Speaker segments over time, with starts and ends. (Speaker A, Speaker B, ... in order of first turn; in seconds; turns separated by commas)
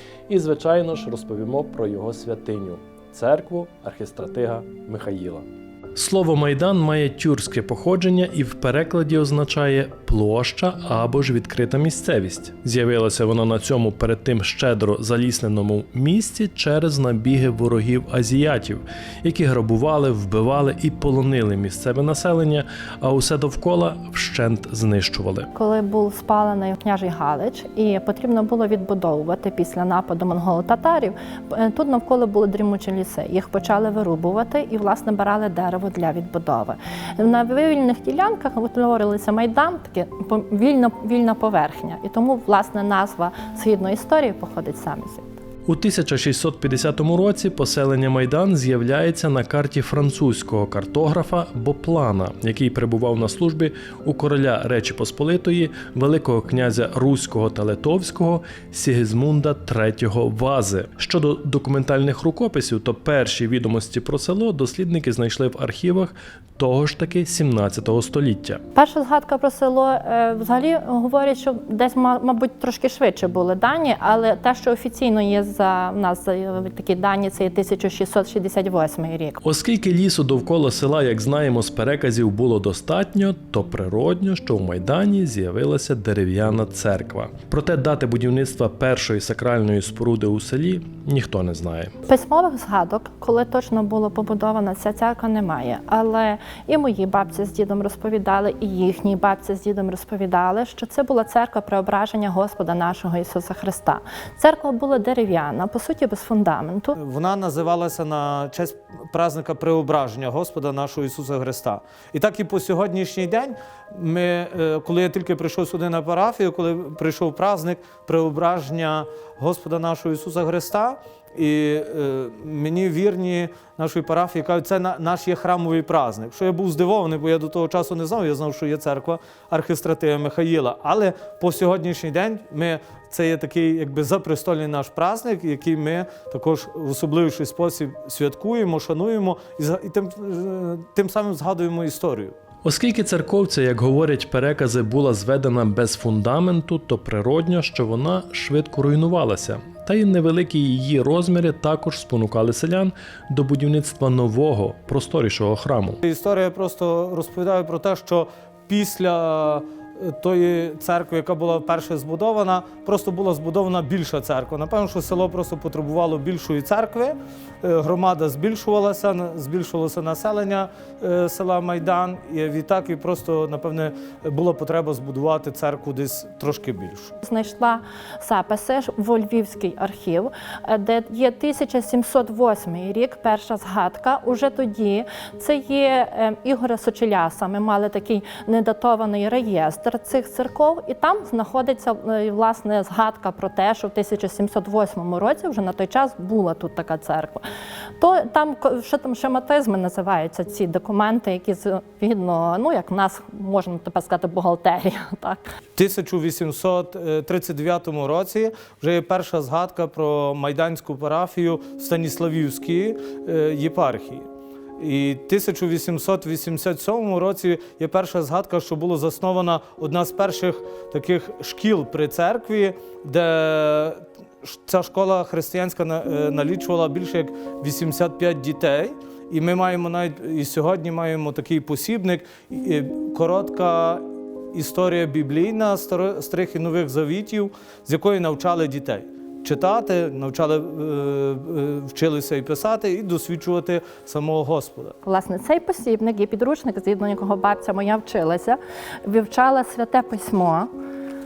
Speaker A: 0.3-25.5, Speaker B: 25.5-45.3, Speaker A: 45.6-68.6, Speaker B: 68.7-79.4, Speaker A: 79.4-91.9, Speaker B: 92.1-106.9, Speaker C: 107.0-142.3, Speaker A: 142.6-156.0, Speaker C: 156.0-177.2, Speaker B: 177.2-197.4, Speaker B: 198.0-205.4, Speaker C: 205.8-214.3, Speaker C: 214.8-244.9, Speaker B: 245.0-250.7